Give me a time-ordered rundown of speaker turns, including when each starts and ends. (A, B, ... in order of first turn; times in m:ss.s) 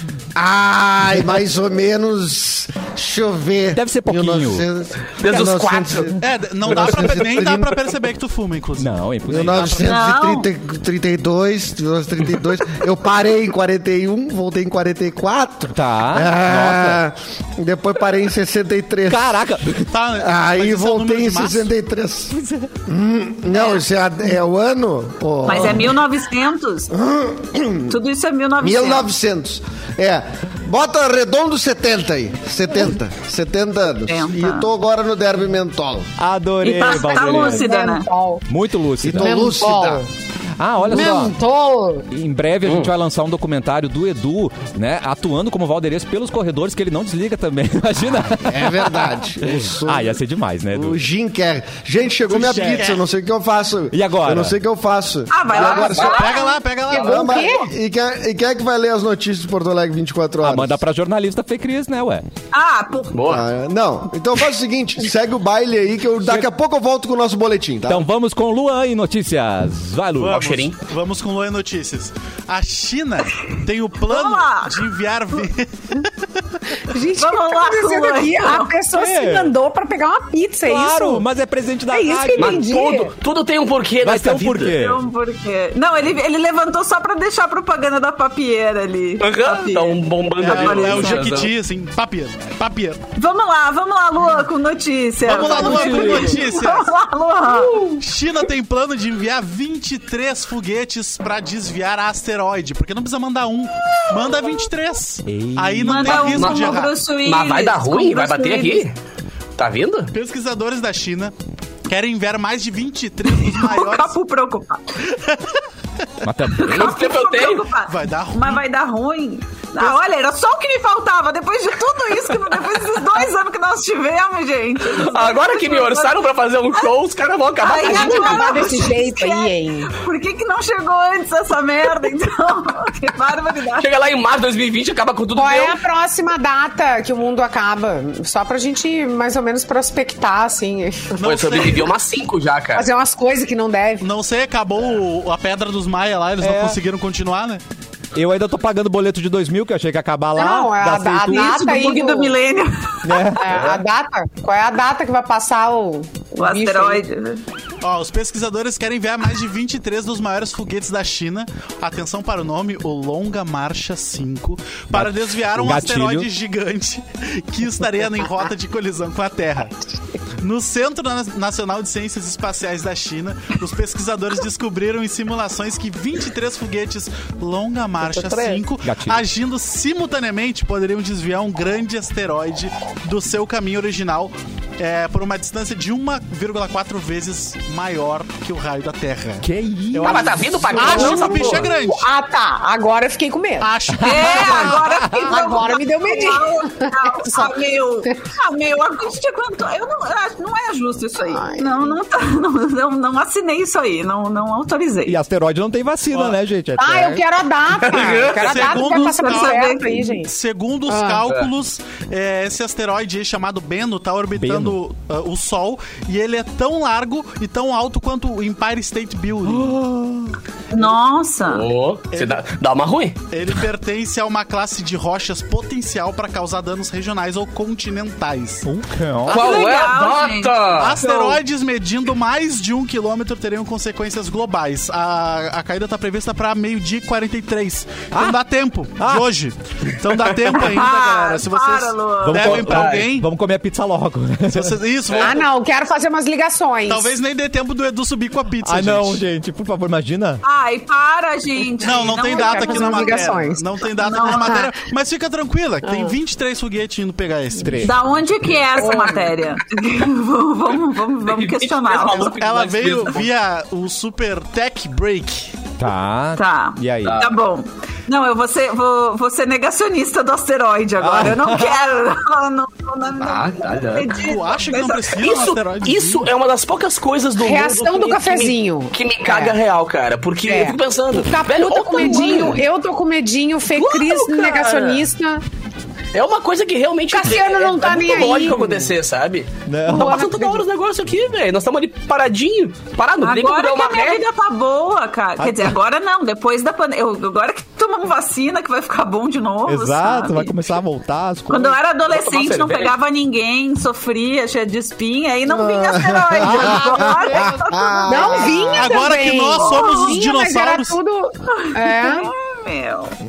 0:00.4-0:07.9 A
0:03.7-0:04.7 B
0:05.2-0:06.1 C
0:06.2-0:10.0 D
0:08.8-0:09.8 B
0:09.3-0:19.4 A
0:09.9-0:10.5 E
0:15.7-0:17.0 B
0:19.1-0:19.9 B
0:19.9-0:21.7 D
0:20.2-0:26.0 A
0:23.5-0:23.8 E
0:25.4-0:26.9 E
0:26.9-0:28.0 A
0:27.9-0:29.1 E
0:28.6-0:36.1 A
0:34.1-0:34.7 E
0:36.2-0:37.7 B
0:36.6-0:38.1 E
0:36.8-0:38.5 F
0:38.5-0:39.5 B
0:39.0-0:40.0 A
0:39.2-0:40.1 F
0:40.6-0:41.4 B
0:40.8-0:42.1 F
0:42.1-0:51.0 B
0:42.7-0:42.9 C
0:48.4-0:50.2 A
0:50.7-0:56.2 A
0:52.3-0:53.0 D
0:52.4-0:52.9 B
0:53.9-0:54.6 B
0:55.3-0:56.6 E
0:55.5-0:56.2 C
0:55.6-0:57.4 D
0:56.9-0:57.7 F
0:56.9-1:00.8 A
1:00.4-1:02.2 B
1:02.5-1:03.2 E
1:03.1-1:03.5 C
1:03.2-1:08.1 A
1:07.9-1:10.4 B
1:10.2-1:16.1 D
1:10.3-1:10.8 C
1:14.1-1:14.8 E
1:16.9-1:21.3 F
1:17.2-1:18.7 E
1:18.9-1:19.6 B
1:20.6-1:22.7 B
1:21.9-1:23.1 F
1:22.4-1:24.8 C
1:24.0-1:25.0 B
1:24.7-1:31.3 E
1:29.2-1:31.5 C
1:30.4-1:33.0 D
1:33.2-1:37.8 E
1:35.2-1:36.9 D
1:35.5-1:36.4 B
1:38.0-1:47.0 D
1:45.3-1:46.5 B
1:45.8-1:48.9 E
1:46.4-1:49.0 C
1:49.6-1:50.1 C
1:50.1-1:51.3 D
1:51.9-1:54.2 D
1:53.3-1:55.0 E
1:55.1-1:55.6 D
1:56.2-1:57.0 B
1:56.6-2:06.9 E
1:56.6-1:57.7 C
1:57.9-1:58.6 D
2:04.9-2:08.8 C
2:07.6-2:13.9 E
2:07.6-2:09.9 F
2:13.8-2:15.8 C
2:15.4-2:21.2 F
2:21.2-2:21.9 D
2:21.2-2:22.9 C
2:22.8-2:24.1 F
2:24.0-2:27.6 D
2:26.4-2:26.8 B
2:28.2-2:31.7 B
2:30.3-2:32.4 F
2:31.3-2:33.4 E
2:33.0-2:33.8 B
2:33.4-2:37.0 F
2:36.4-2:37.4 E
2:37.8-2:49.7 D
2:44.9-2:46.3 B
2:50.4-3:12.1 D
2:58.0-2:58.6 F
2:58.8-2:59.2 B
3:09.4-3:11.0 B
3:10.0-3:11.7 C
3:10.8-3:13.7 F
3:13.6-3:14.8 D
3:13.9-3:15.3 B
3:14.0-3:25.2 E
3:15.1-3:17.6 F
3:21.2-3:22.0 F
3:25.1-3:27.2 B
3:26.1-3:26.4 D
3:26.8-3:30.3 F
3:27.7-3:28.7 C
3:28.0-3:39.8 D
3:28.8-3:30.1 E
3:30.9-3:31.2 F
3:34.4-3:34.8 B
3:39.5-3:40.4 B
3:40.7-3:41.7 E
3:41.4-3:43.2 C
3:42.1-3:42.5 D
3:43.3-3:48.7 D
3:48.6-3:49.4 B
3:49.3-3:49.8 D
3:49.3-3:50.6 E
3:49.3-3:51.4 C
3:50.7-4:03.3 D
3:58.1-3:58.4 B
3:59.0-3:59.3 B
4:00.6-4:02.6 E
4:02.2-4:04.8 B
4:02.4-4:03.1 C
4:04.5-4:05.5 D
4:05.1-4:05.4 C
4:05.2-4:07.2 F
4:06.9-4:09.2 D
4:08.6-4:10.4 B
4:10.4-4:13.2 E
4:11.8-4:18.0 D
4:11.9-4:14.7 F
4:14.0-4:14.5 E
4:15.8-4:16.2 F
4:17.6-4:18.0 B
4:17.8-4:22.4 E
4:18.8-4:19.3 F
4:21.3-4:23.3 C
4:22.0-4:25.6 D
4:25.8-4:27.3 B
4:26.4-4:35.4 E
4:27.0-4:27.3 C
4:31.0-4:31.8 B
4:33.2-4:34.2 C
4:34.1-4:36.3 D
4:35.1-4:42.6 C
4:37.4-4:39.6 F
4:40.5-4:45.4 F
4:42.0-4:42.5 E
4:43.8-4:45.1 C
4:46.1-4:54.2 C
4:47.1-4:48.9 F
4:49.7-4:50.3 B
4:49.8-4:50.7 F
4:53.2-5:00.6 E
4:55.4-4:55.8 B
4:59.7-5:01.8 B
5:01.5-5:08.7 E
5:02.1-5:03.0 C
5:05.5-5:08.8 A
5:06.4-5:07.8 B
5:08.1-5:12.3 F
5:08.7-5:11.0 D
5:09.7-5:10.1 E
5:11.5-5:13.2 E